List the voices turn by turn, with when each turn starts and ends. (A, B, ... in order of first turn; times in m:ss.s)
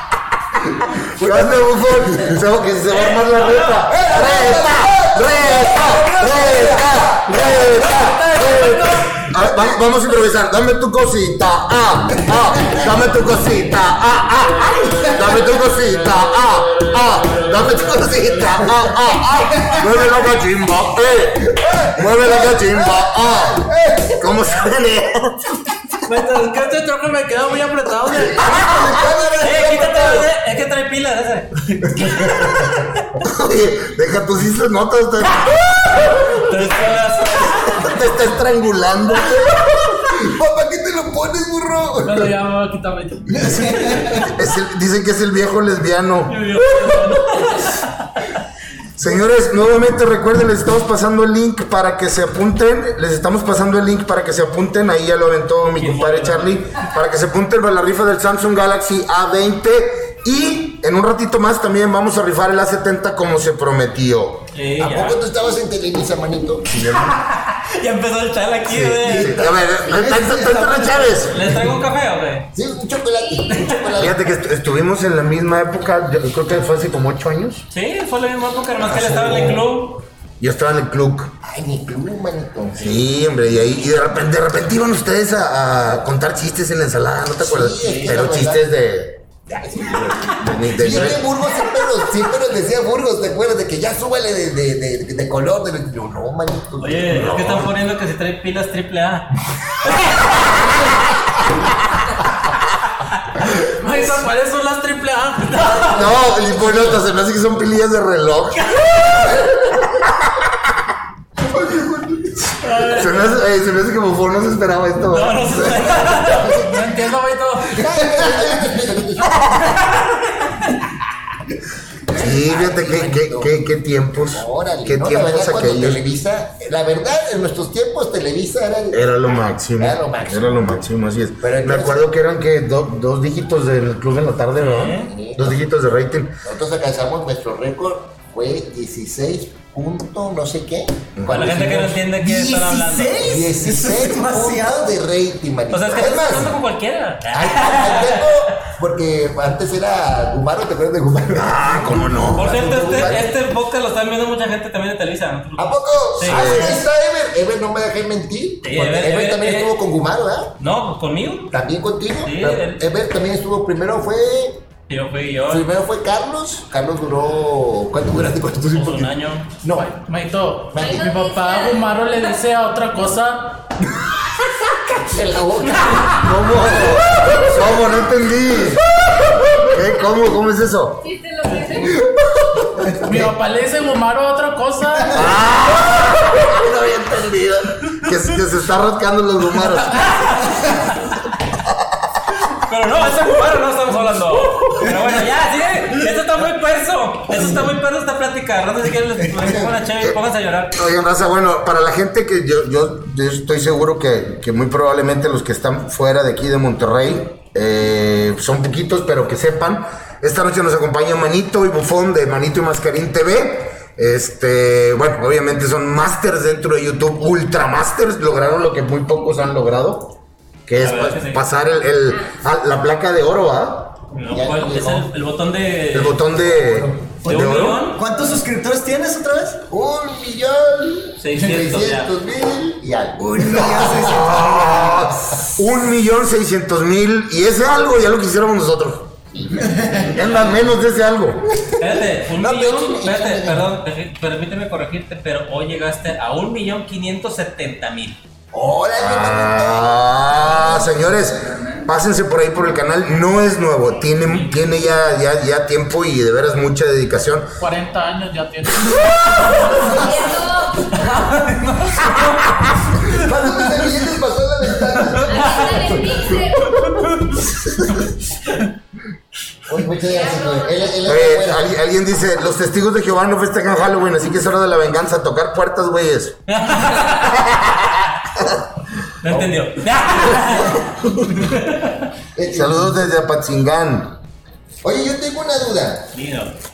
0:00.8-0:02.4 A
0:01.2-0:25.6 B
0:02.9-0:04.0 C
0:03.9-0:07.4 A
0:14.8-0:15.4 D
0:21.6-0:24.2 A
0:26.0-0:28.5 E
0:28.4-0:30.3 A
0:28.4-0:29.0 B
0:29.4-0:31.5 C
0:31.9-0:32.7 A
0:32.0-0:36.5 B
0:36.2-0:37.9 C
0:37.7-0:39.6 B
0:39.5-0:42.2 A
0:42.0-0:43.6 E
0:43.4-0:44.2 D
0:44.0-0:46.5 B
0:46.3-0:47.9 C
0:46.8-0:47.5 E
0:49.0-1:04.5 B
0:55.8-0:56.6 C
1:04.5-1:05.2 C
1:04.8-1:06.7 A
1:06.7-1:07.2 B
1:06.9-1:09.4 C
1:08.7-1:11.4 B
1:09.0-1:10.1 A
1:09.9-1:11.6 D
1:11.3-1:12.5 C
1:12.5-1:14.4 A
1:13.5-1:13.9 C
1:13.9-1:17.6 B
1:17.7-1:20.0 C
1:18.9-1:19.6 B
1:20.4-1:21.3 B
1:21.4-1:23.0 A
1:22.8-1:29.2 B
1:27.4-1:28.7 A
1:27.8-1:28.2 C
1:29.5-1:37.3 A
1:30.3-1:31.2 B
1:36.8-1:39.3 C
1:37.0-1:37.7 B
1:43.7-1:45.9 E
1:45.5-1:46.1 C
1:45.8-1:49.4 B
1:48.6-1:49.3 C
1:51.6-1:52.3 A
1:52.6-1:53.1 C
1:52.6-1:56.0 B
1:55.1-1:56.6 C
1:55.9-1:57.1 A
1:56.4-1:57.8 E
1:57.7-1:59.8 A
1:58.2-1:58.4 B
1:59.6-2:00.8 C
2:02.1-2:03.6 A
2:02.1-2:06.0 B
2:04.2-2:09.1 A
2:08.9-2:16.3 B
2:09.8-2:10.8 A
2:11.4-2:12.0 A
2:14.6-2:15.1 C
2:15.0-2:15.6 A
2:16.4-2:22.0 A
2:21.2-2:21.4 B
2:21.3-2:23.4 C
2:22.2-2:24.9 D
2:23.2-2:26.6 A
2:25.7-2:28.5 C
2:27.3-2:33.3 A
2:31.3-2:33.2 B
2:32.3-2:36.7 C
2:35.6-2:40.5 A
2:36.2-2:36.8 B
2:38.6-2:39.7 C
2:40.6-2:41.5 C
2:41.5-2:44.6 A
2:42.2-2:42.8 C
2:44.9-2:45.6 C
2:45.5-2:49.1 A
2:48.7-2:49.5 C
2:49.6-2:49.9 A
2:49.8-2:53.6 E
2:50.7-2:51.0 A
2:50.8-2:52.2 F
2:54.7-2:56.3 A
2:56.2-3:01.0 B
2:57.1-2:57.8 A
3:01.0-3:02.0 F
3:02.6-3:03.3 B
3:03.0-3:05.2 E
3:05.1-3:10.4 B
3:09.9-3:10.8 C
3:12.5-3:20.8 C
3:19.2-3:19.5 D
3:20.7-3:40.1 B
3:40.7-3:43.9 B
3:40.8-3:41.4 C
3:44.1-3:46.2 C
3:44.3-3:45.1 A
3:45.9-3:47.8 B
3:46.3-3:47.0 A
3:47.2-3:49.6 D
3:47.2-3:48.0 C
3:49.7-3:54.2 A
3:51.2-3:52.1 C
3:53.2-3:55.0 D
3:54.0-3:59.2 B
3:59.3-4:00.2 A
4:00.1-4:01.4 B
4:01.6-4:03.6 A
4:01.8-4:08.2 C
4:08.5-4:11.0 A
4:09.0-4:17.5 B
4:14.2-4:14.5 C
4:17.6-4:19.9 E
4:19.8-4:21.1 F
4:21.1-4:22.2 E
4:23.0-4:26.4 A
4:25.2-4:27.1 F
4:29.7-4:31.7 A
4:30.0-4:31.0 F
4:31.0-4:36.4 B
4:36.5-4:37.5 C
4:37.3-4:38.1 B
4:39.2-4:42.1 C
4:39.3-4:40.8 A
4:42.4-4:43.0 A
4:42.4-4:44.2 B
4:44.8-4:46.1 A
4:46.1-4:46.5 C